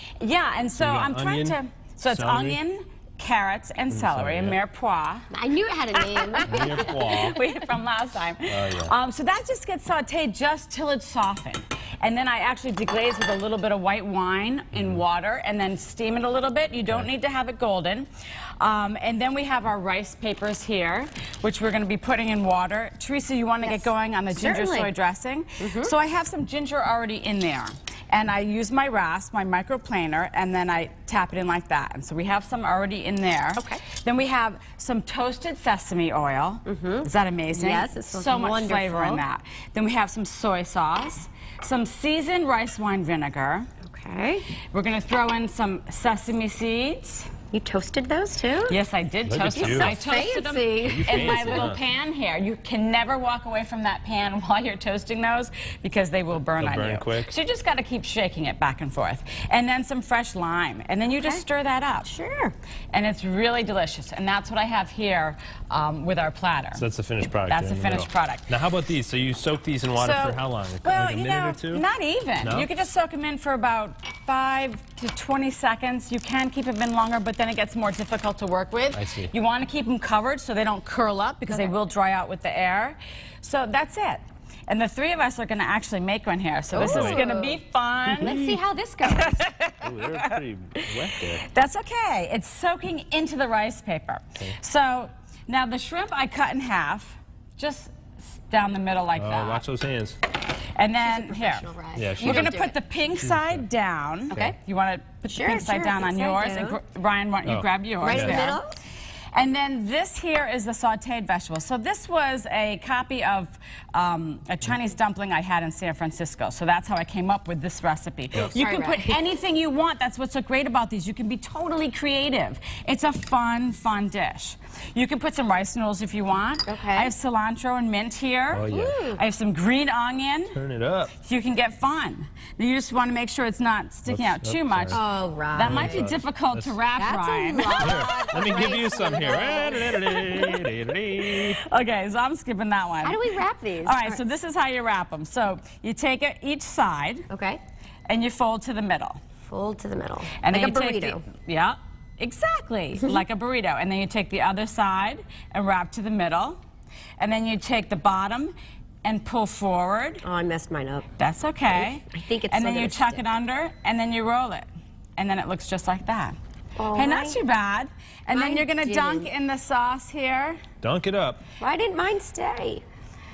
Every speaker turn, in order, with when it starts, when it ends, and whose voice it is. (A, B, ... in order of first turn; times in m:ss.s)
0:00.2-0:05.3 A
0:00.8-0:02.6 B
0:03.9-0:04.6 B
0:05.3-0:07.1 C
0:06.0-0:18.1 A
0:06.5-0:07.4 B
0:08.5-0:08.9 B
0:14.7-0:15.0 B
0:18.6-0:43.7 A
0:23.6-0:24.9 C
0:25.6-0:25.9 C
0:33.6-0:33.8 C
0:36.6-0:39.2 C
0:43.8-0:44.4 C
0:44.7-0:47.3 A
0:47.5-0:48.8 C
0:48.7-1:02.1 A
0:49.2-0:50.0 B
0:49.5-0:51.6 C
0:50.8-0:51.8 B
0:56.6-0:57.3 B
1:02.0-1:02.5 C
1:02.9-1:06.8 A
1:06.8-1:11.8 B
1:07.5-1:08.5 A
1:10.0-1:28.4 A
1:12.4-1:12.7 B
1:18.9-1:19.3 B
1:21.5-1:21.7 C
1:26.7-1:27.6 C
1:26.8-1:27.2 B
1:28.1-1:29.4 C
1:28.1-1:28.6 B
1:29.0-1:30.4 A
1:29.8-1:31.4 B
1:31.0-1:39.6 A
1:39.2-1:40.2 B
1:40.8-1:48.6 A
1:41.0-1:42.8 C
1:42.0-1:42.5 B
1:43.2-1:43.6 B
1:45.2-1:46.8 C
1:47.4-1:48.5 B
1:48.0-1:48.7 C
1:49.3-2:10.6 A
1:58.3-1:59.2 C
2:06.6-2:07.1 C
2:08.5-2:09.0 B
2:08.6-2:09.2 C
2:10.5-2:11.1 B
2:11.1-2:18.3 A
2:14.1-2:15.0 B
2:14.9-2:16.1 C
2:15.6-2:16.8 B
2:17.0-2:20.1 C
2:17.8-2:21.6 B
2:19.8-2:23.2 A
2:23.0-2:24.2 C
2:23.8-2:27.3 A
2:27.3-2:27.6 C
2:28.1-2:29.2 A
2:29.5-2:31.2 C
2:30.4-2:36.6 A
2:37.2-2:40.2 A
2:40.2-2:41.0 C
2:41.2-2:44.6 A
2:41.7-2:43.2 C
2:45.2-2:46.4 A
2:46.8-2:47.4 C
2:46.9-2:50.6 A
2:48.3-2:49.3 C
2:50.8-2:51.4 B
2:51.6-2:52.8 C